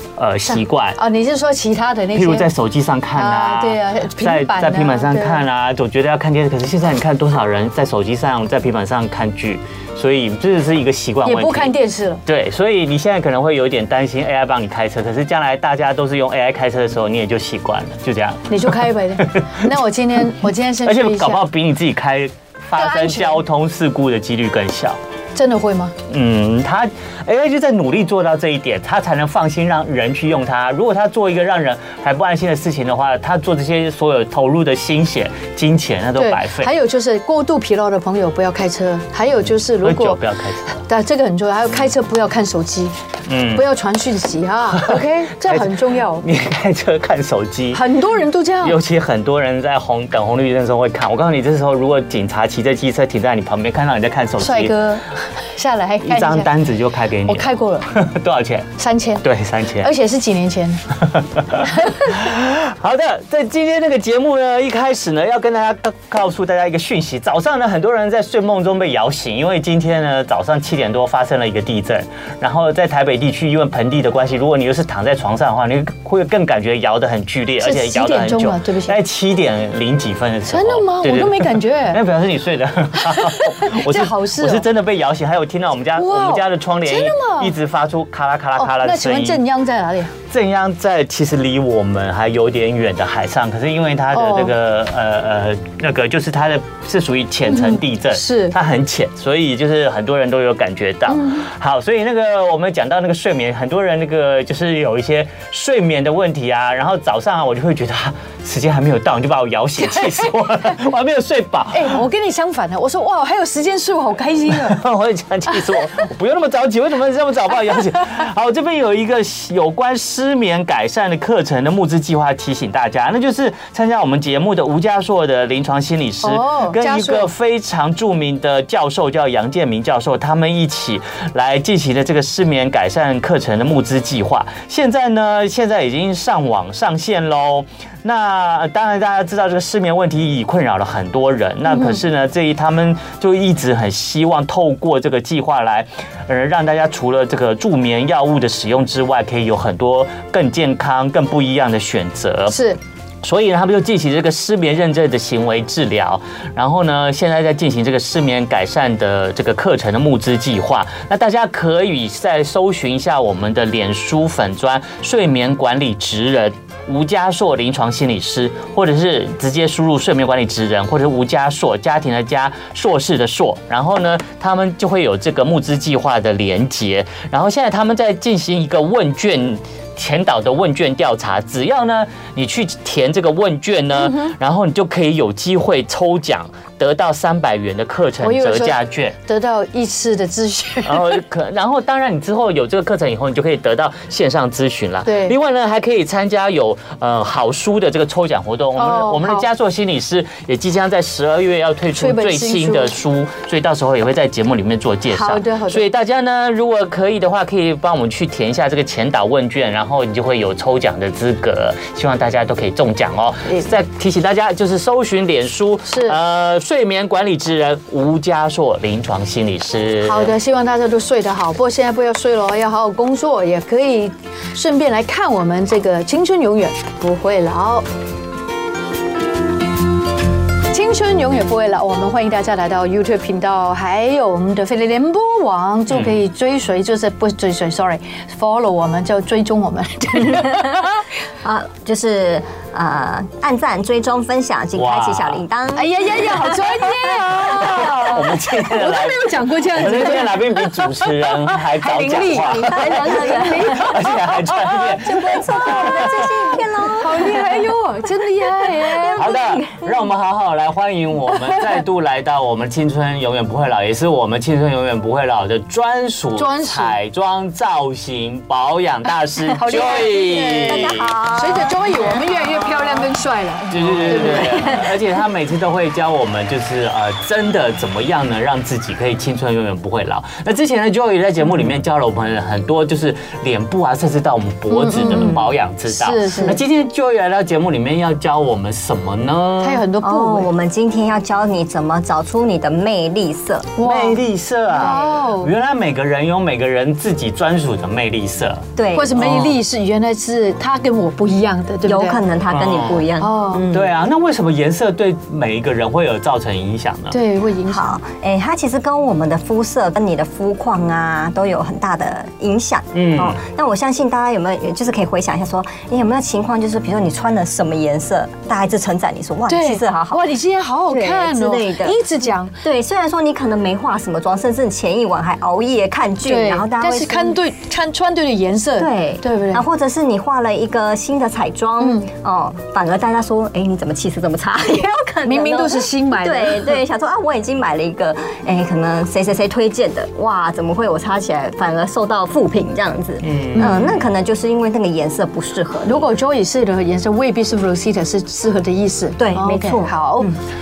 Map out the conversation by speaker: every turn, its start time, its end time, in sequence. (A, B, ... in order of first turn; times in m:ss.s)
0:00.2-0:01.0 A
0:00.5-0:02.5 B
0:02.1-0:19.5 A
0:03.1-0:05.4 B
0:11.2-0:12.2 B
0:18.5-0:21.4 B
0:20.8-0:25.0 A
0:22.8-0:23.4 B
0:25.4-0:25.9 B
0:26.1-0:36.7 A
0:36.2-0:40.2 B
0:39.8-0:40.8 A
0:40.8-0:42.9 B
0:43.3-0:43.6 A
0:43.5-0:46.2 B
0:44.8-0:47.8 A
0:47.7-0:48.8 B
0:48.6-0:54.9 A
0:54.4-0:56.5 B
0:56.0-0:58.7 A
0:57.2-0:58.0 B
0:58.8-0:59.2 B
0:59.2-0:59.9 A
0:59.8-1:00.8 B
1:01.0-1:29.4 A
1:01.6-1:02.1 B
1:17.6-1:19.0 B
1:20.5-1:22.0 B
1:23.0-1:24.6 B
1:26.0-1:27.5 B
1:28.6-1:30.1 B
1:30.3-1:52.0 A
1:34.1-1:34.5 B
1:37.5-1:38.5 B
1:41.1-1:41.4 B
1:51.7-1:54.8 B
1:54.5-2:32.6 A
2:06.2-2:07.3 B
2:32.5-2:32.8 B
2:33.2-3:09.2 A
3:08.2-3:11.2 B
3:10.8-3:40.4 A
3:15.0-3:15.4 B
3:18.8-3:19.5 B
3:22.0-3:23.0 B
3:25.1-3:25.9 B
3:35.9-3:36.2 B
3:40.0-3:47.9 B
3:50.7-4:00.9 B
3:55.9-3:56.2 A
4:01.4-4:06.6 C
4:04.8-4:05.4 A
4:05.8-4:15.0 B
4:07.4-4:16.6 A
4:12.4-4:13.8 C
4:15.0-4:17.7 C
4:16.9-4:19.2 B
4:18.5-4:20.0 C
4:19.2-4:31.1 A
4:26.4-4:27.0 B
4:29.6-4:34.8 B
4:29.7-4:33.0 C
4:33.7-4:49.8 A
4:33.8-4:34.8 C
4:44.7-4:46.6 B
4:45.0-4:45.5 C
4:49.6-4:50.5 B
4:50.0-4:53.8 C
4:53.8-4:54.2 B
4:53.8-4:58.6 A
4:54.7-4:55.5 B
4:58.8-4:59.2 C
4:58.9-5:02.2 B
4:59.2-4:59.6 A
5:01.9-5:03.9 C
5:02.5-5:03.1 A
5:03.2-5:03.6 B
5:03.7-5:07.2 A
5:07.1-5:08.0 B
5:07.7-5:20.2 C
5:12.9-5:13.4 A
5:19.5-5:22.5 B
5:20.9-5:22.0 C
5:22.6-5:27.4 C
5:26.2-5:29.6 B
5:28.8-5:46.1 C
5:31.8-5:32.1 B
5:35.2-5:36.8 B
5:43.2-5:44.0 A
5:43.6-5:44.0 B
5:45.8-5:50.3 B
5:49.2-5:50.4 C